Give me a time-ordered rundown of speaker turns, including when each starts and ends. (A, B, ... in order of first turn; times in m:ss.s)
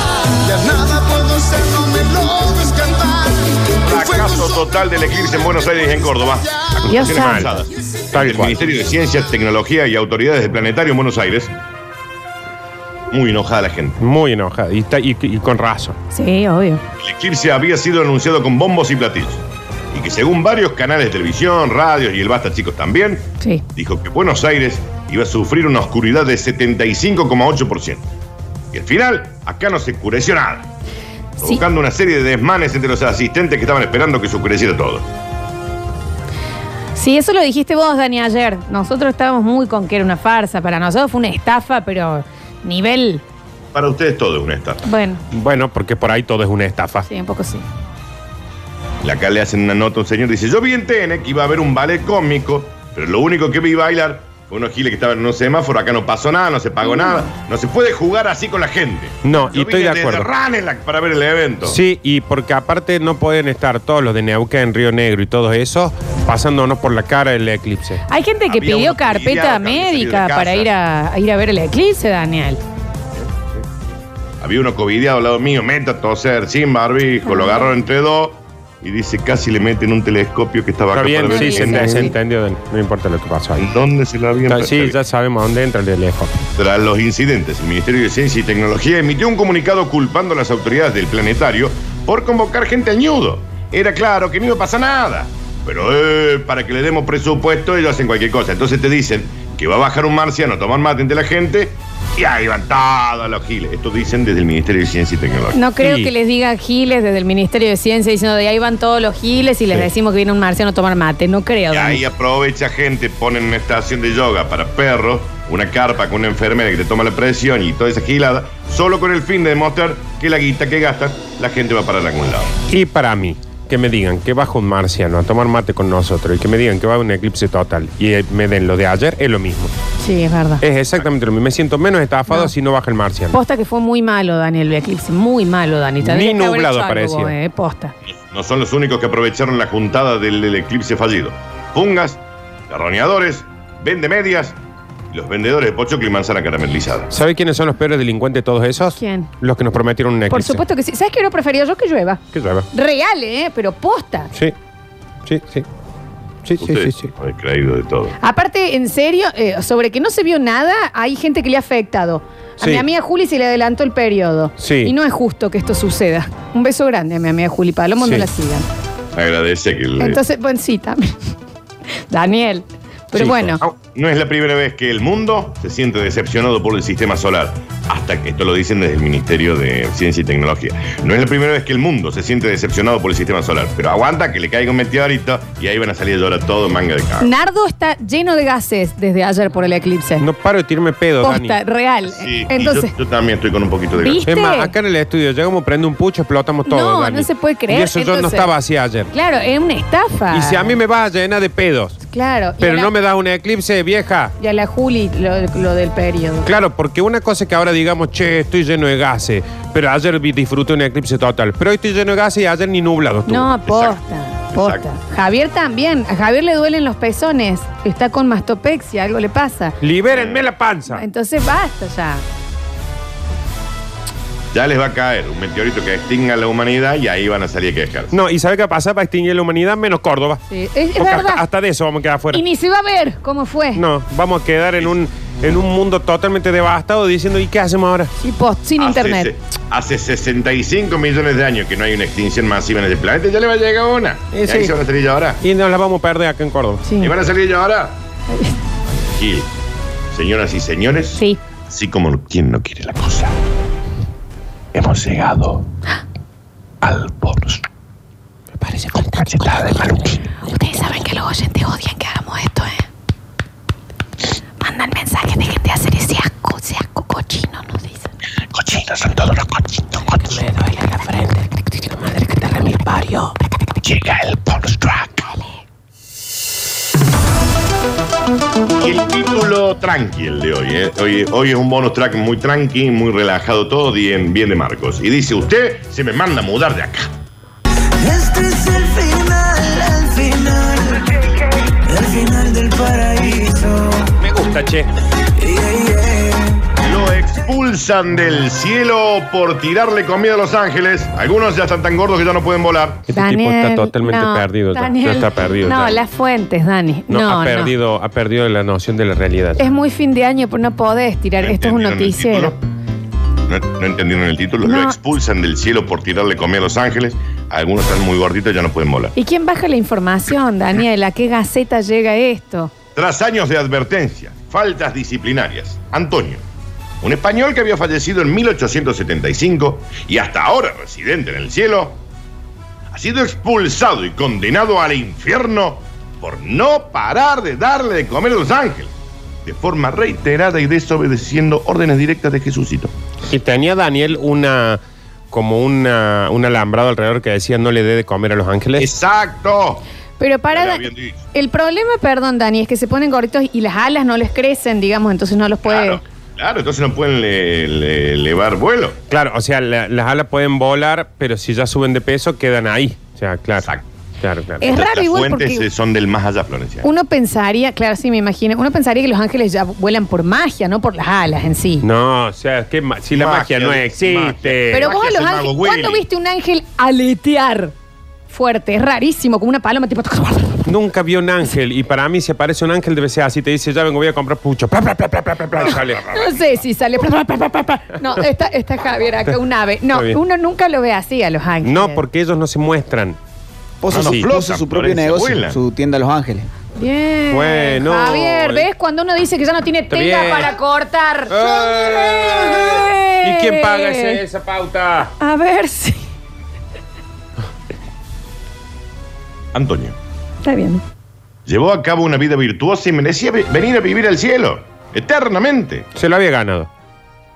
0:00.4-0:04.6 A
0:03.8-0:11.5 B
0:06.4-0:06.7 A
0:06.8-0:07.5 C
0:06.9-0:07.5 D
0:08.1-0:08.6 C
0:13.1-0:14.0 B
0:14.0-0:16.0 C
0:16.1-0:16.8 D
0:17.0-0:28.1 B
0:28.7-0:30.7 B
0:31.4-0:35.1 B
0:37.0-0:43.2 D
0:43.7-0:44.8 B
0:44.8-0:45.2 D
0:45.3-0:47.1 C
0:47.1-0:47.6 D
0:49.0-1:01.8 B
0:59.2-1:00.3 C
1:01.7-1:08.0 C
1:08.1-1:12.6 D
1:08.4-1:10.7 B
1:13.2-1:13.6 B
1:14.4-1:22.1 B
1:17.3-1:17.7 D
1:20.9-1:23.7 C
1:21.3-1:22.1 D
1:23.6-1:25.0 B
1:24.5-1:26.4 C
1:26.6-1:45.6 B
1:45.5-1:52.0 D
1:45.8-1:46.1 C
1:51.7-2:02.6 B
2:02.7-2:09.7 C
2:10.0-2:10.6 D
2:10.6-2:13.4 C
2:13.3-2:17.9 D
2:16.0-2:17.3 C
2:18.1-2:24.6 B
2:25.1-2:27.1 B
2:27.1-2:30.6 C
2:29.0-2:29.3 D
2:30.3-2:32.2 D
2:32.3-2:32.7 C
2:32.7-2:34.3 D
2:35.3-2:35.6 C
2:36.4-2:37.1 C
2:36.6-2:38.2 B
2:38.2-2:48.7 D
2:44.6-2:44.9 C
2:48.0-2:48.3 C
2:49.2-2:50.2 B
2:50.0-2:51.1 D
2:52.1-2:53.6 D
2:53.1-2:53.7 C
2:53.8-3:07.3 B
3:07.2-3:10.2 D
3:10.2-3:11.6 C
3:11.2-3:12.9 D
3:12.1-3:14.2 B
3:14.0-3:14.7 D
3:14.2-3:19.1 C
3:16.7-3:18.5 D
3:19.1-3:20.8 D
3:20.3-3:22.0 C
3:22.1-3:22.9 D
3:22.6-3:24.4 C
3:24.4-3:26.5 D
3:26.4-3:33.5 C
3:33.3-3:39.8 D
3:33.7-3:34.0 B
3:34.5-3:34.9 B
3:39.8-3:41.0 C
3:40.1-3:40.4 B
3:40.9-3:42.2 D
3:44.5-3:48.2 B
3:48.1-3:50.4 C
3:50.5-3:51.4 D
3:51.0-3:52.4 C
3:52.3-3:53.8 D
3:53.8-3:58.1 C
3:58.2-3:59.3 D
3:58.8-4:05.4 B
4:04.3-4:04.7 C
4:05.4-4:06.8 C
4:06.8-4:07.1 D
4:07.0-4:08.0 B
4:08.3-4:08.6 D
4:08.8-4:09.5 B
4:10.1-4:13.4 B
4:14.7-4:15.7 B
4:16.8-4:17.6 B
4:18.6-4:20.2 C
4:19.1-4:20.2 B
4:20.4-4:22.9 D
4:24.6-4:28.1 D
4:28.5-4:30.4 B
4:30.5-4:31.3 D
4:30.8-4:31.2 C
4:31.8-4:33.2 C
4:32.4-4:33.3 D
4:33.8-4:35.3 B
4:38.8-4:47.1 B
4:48.0-4:54.1 A
4:54.2-4:54.9 C
4:55.4-4:56.6 A
4:56.8-5:03.1 B
5:03.1-5:06.0 C
5:03.1-5:07.7 D
5:07.1-5:09.7 C
5:09.6-5:12.6 D
5:11.4-5:12.6 B
5:13.5-5:19.2 B
5:14.6-5:15.0 D
5:19.2-5:22.7 D
5:23.0-5:26.4 B
5:27.0-5:32.0 B
5:32.9-5:38.9 B
5:39.4-5:42.9 B
5:43.2-5:44.8 C
5:45.3-5:48.9 C
5:48.8-5:49.9 B
5:50.2-5:56.0 D
5:50.5-5:51.2 B
5:55.7-5:59.0 B
5:59.1-6:03.7 C
6:04.2-6:04.7 C
6:04.6-6:05.6 D
6:04.6-6:06.9 B
6:06.8-6:11.8 D
6:11.8-6:14.9 C
6:13.1-6:16.0 B
6:14.7-6:17.7 D
6:18.3-6:20.7 D
6:20.7-6:26.3 C
6:25.7-6:32.0 D
6:29.9-6:30.2 C
6:31.6-6:33.2 C
6:33.8-6:36.5 E
6:33.9-6:35.6 B
6:33.9-6:34.3 C
6:36.8-6:44.2 D
6:37.3-6:38.7 C
6:39.9-6:40.5 C
6:41.3-6:45.2 C
6:45.2-6:46.1 D
6:49.5-6:50.0 B
6:50.4-6:50.8 D
6:51.5-6:55.9 B
6:56.0-6:56.7 C